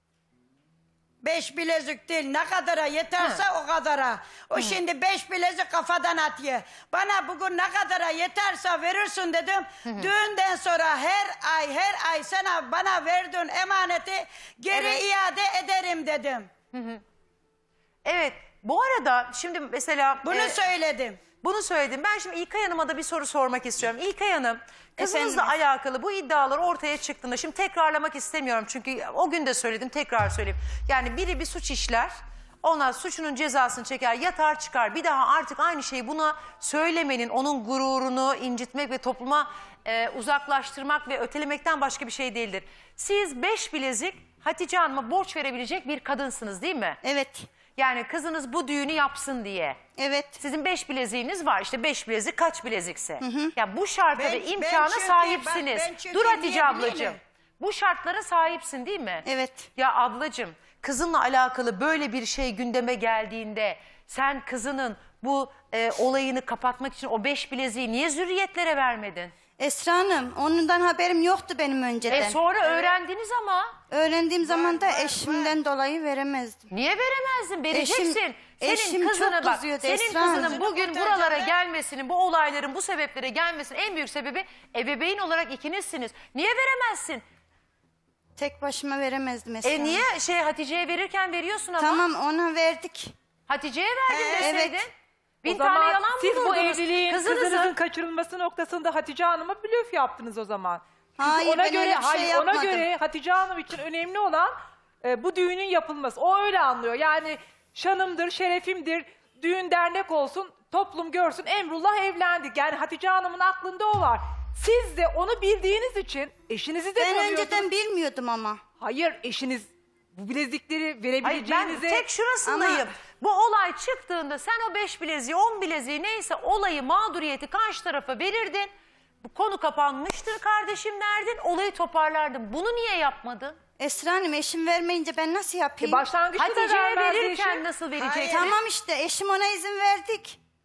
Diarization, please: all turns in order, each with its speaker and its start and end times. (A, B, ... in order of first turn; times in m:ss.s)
0:01.2-0:16.5 A
0:09.8-0:10.1 B
0:14.7-0:15.0 B
0:16.7-0:17.0 B
0:18.0-0:20.6 B
0:20.2-0:21.2 A
0:21.4-0:47.0 B
0:25.0-0:25.5 C
0:47.0-0:47.5 C
0:47.8-0:49.8 B
0:50.0-0:50.4 C
0:50.4-1:09.3 B
0:53.2-0:53.5 C
0:54.1-0:57.2 A
0:59.2-0:59.7 C
1:09.6-1:12.4 C
1:12.1-1:13.8 B
1:13.9-1:16.7 C
1:14.4-1:15.5 A
1:16.7-1:27.2 B
1:17.7-1:20.6 C
1:20.2-1:21.5 A
1:28.4-1:30.0 C
1:29.6-1:32.0 B
1:31.8-1:33.1 C
1:33.5-1:34.9 B
1:34.1-1:34.6 A
1:34.4-1:34.8 C
1:35.4-1:37.8 B
1:35.4-1:57.6 D
1:41.2-1:42.9 C
1:56.9-1:58.6 C
1:58.8-2:02.1 D
2:01.2-2:08.7 B
2:02.4-2:02.9 C
2:09.2-2:13.6 B
2:13.8-2:16.1 C
2:15.8-2:17.6 D
2:16.4-2:18.6 B
2:18.0-2:18.5 A
2:18.3-2:20.4 C